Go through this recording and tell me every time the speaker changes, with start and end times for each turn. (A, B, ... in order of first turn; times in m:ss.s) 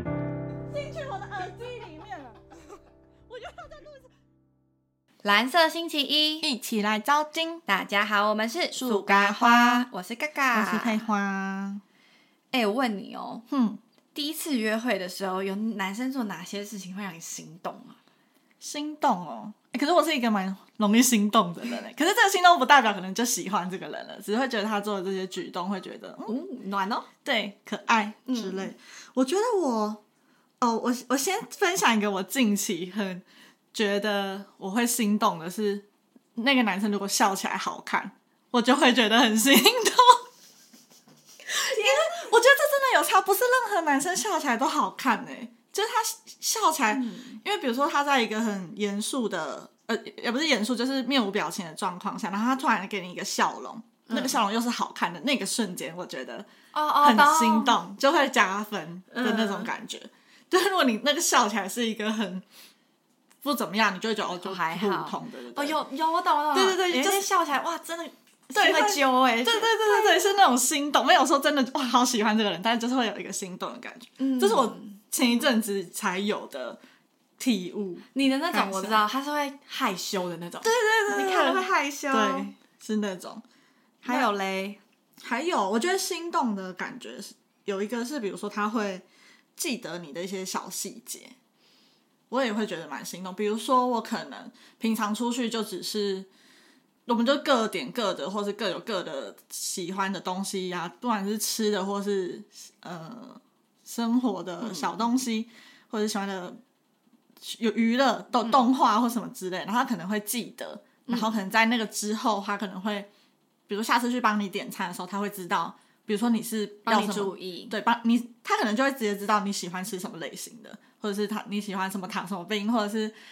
0:00.7-0:02.8 A
0:03.3-0:04.1 A
0:05.2-0:06.4 B
0:06.4-0:07.6 A
0:07.6-0:11.1 B
0:08.7-0:09.9 A
0:10.5-0:11.8 A
0:12.5-0:13.4 B
0:13.5-0:13.8 A
0:14.1-0:18.0 B
0:18.6-0:26.3 A
0:26.2-0:27.1 B
0:27.2-0:30.0 A
0:28.3-0:28.7 B
0:30.6-0:40.2 A
0:41.5-0:56.5 A
0:41.6-0:42.3 B
0:46.9-0:47.4 B
0:54.1-0:54.4 B
0:56.7-0:57.8 B
0:57.0-1:02.4 A
0:59.1-0:59.7 B
1:03.4-1:05.8 A
1:04.3-1:10.4 B
1:06.5-1:07.3 A
1:08.5-1:16.8 A
1:14.2-1:15.0 B
1:17.4-1:19.0 A
1:18.1-1:22.5 B
1:20.6-1:23.4 A
1:24.0-1:24.8 B
1:24.0-1:24.3 A
1:25.2-1:29.0 A
1:29.6-1:31.4 A
1:32.3-1:36.3 A
1:37.1-1:46.6 A
1:44.6-1:44.9 B
1:47.4-1:53.1 A
1:51.1-1:51.4 B
1:53.7-2:03.1 A
1:56.8-1:57.7 B